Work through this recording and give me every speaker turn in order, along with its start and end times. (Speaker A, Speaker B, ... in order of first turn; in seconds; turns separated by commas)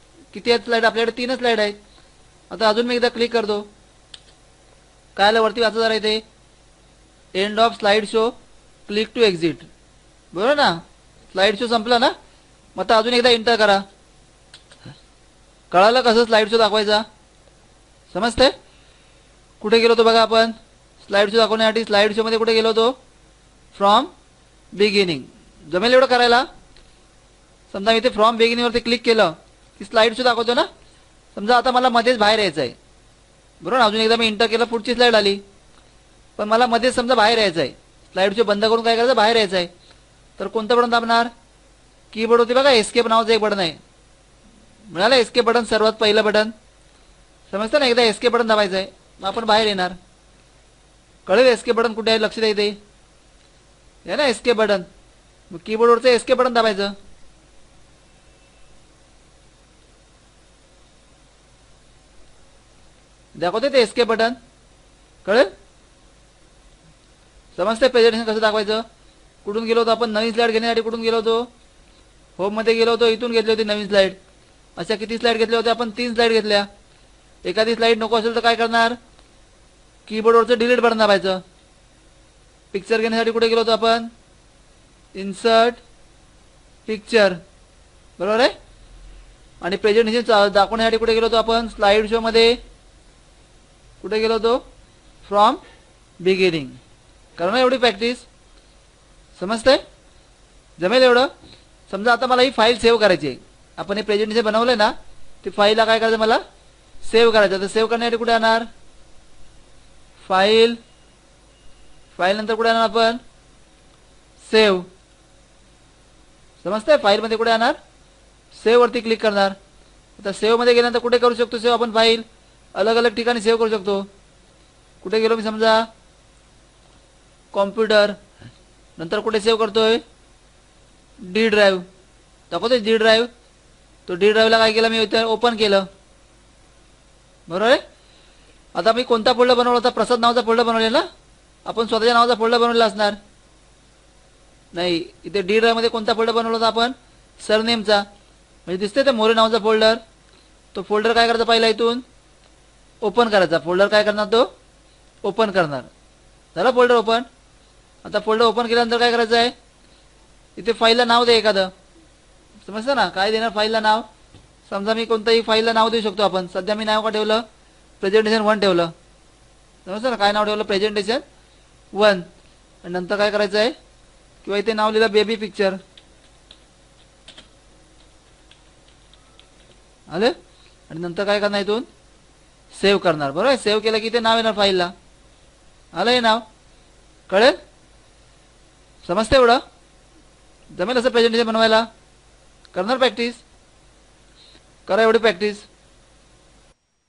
Speaker A: 0.3-1.8, Speaker A: 2.5-3.7, Speaker A: 5.2-6.2, Speaker A: 7.3-8.3, Speaker A: 8.9-9.7, Speaker A: 10.3-10.8, Speaker A: 11.3-12.1, Speaker A: 12.8-13.8, Speaker A: 15.7-17.1, Speaker A: 18.1-18.5, Speaker A: 19.6-22.9, Speaker A: 23.7-24.1, Speaker A: 24.7-26.5, Speaker A: 27.7-30.7, Speaker A: 31.3-32.8, Speaker A: 33.6-35.4, Speaker A: 36.4-39.7, Speaker A: 40.4-41.3, Speaker A: 42.1-43.8, Speaker A: 44.9-46.5, Speaker A: 47.5-50.0, Speaker A: 51.3-52.8, Speaker A: 54.1-54.9, Speaker A: 55.5-56.9, Speaker A: 63.4-64.4, Speaker A: 65.2-65.5, Speaker A: 67.5-68.8, Speaker A: 69.4-71.5, Speaker A: 72.4-74.2, Speaker A: 74.8-76.7, Speaker A: 77.4-79.0, Speaker A: 80.1-81.4, Speaker A: 82.7-84.1, Speaker A: 85.2-85.8, Speaker A: 86.9-87.4, Speaker A: 88.2-88.5, Speaker A: 89.6-92.6, Speaker A: 94.0-94.6, Speaker A: 95.2-95.6, Speaker A: 96.2-96.8, Speaker A: 97.4-98.3, Speaker A: 99.4-99.8, Speaker A: 100.8-101.3, Speaker A: 101.9-106.4, Speaker A: 107.0-108.7, Speaker A: 110.2-110.8, Speaker A: 112.2-113.2, Speaker A: 114.4-114.9, Speaker A: 116.6-117.8, Speaker A: 118.5-119.6, Speaker A: 120.2-124.1, Speaker A: 125.0-125.9, Speaker A: 127.5-128.2, Speaker A: 129.0-130.0, Speaker A: 131.2-131.8, Speaker A: 132.5-133.3, Speaker A: 134.1-135.9, Speaker A: 137.5-137.8, Speaker A: 138.8-141.0, Speaker A: 141.7-143.2, Speaker A: 144.7-148.1, Speaker A: 148.7-150.0, Speaker A: 150.7-152.0, Speaker A: 153.0-154.5, Speaker A: 155.2-155.9, Speaker A: 156.6-157.3, Speaker A: 158.0-159.5, Speaker A: 160.6-161.7, Speaker A: 162.6-164.1, Speaker A: 164.7-167.4, Speaker A: 168.0-168.9, Speaker A: 169.9-171.2, Speaker A: 171.9-172.3, Speaker A: 172.8-173.8, Speaker A: 174.4-175.8, Speaker A: 180.1-180.3, Speaker A: 180.9-181.9, Speaker A: 182.7-184.9, Speaker A: 185.9-186.4, Speaker A: 187.3-187.6, Speaker A: 189.0-189.6, Speaker A: 190.8-191.9, Speaker A: 192.7-193.4, Speaker A: 194.9-195.7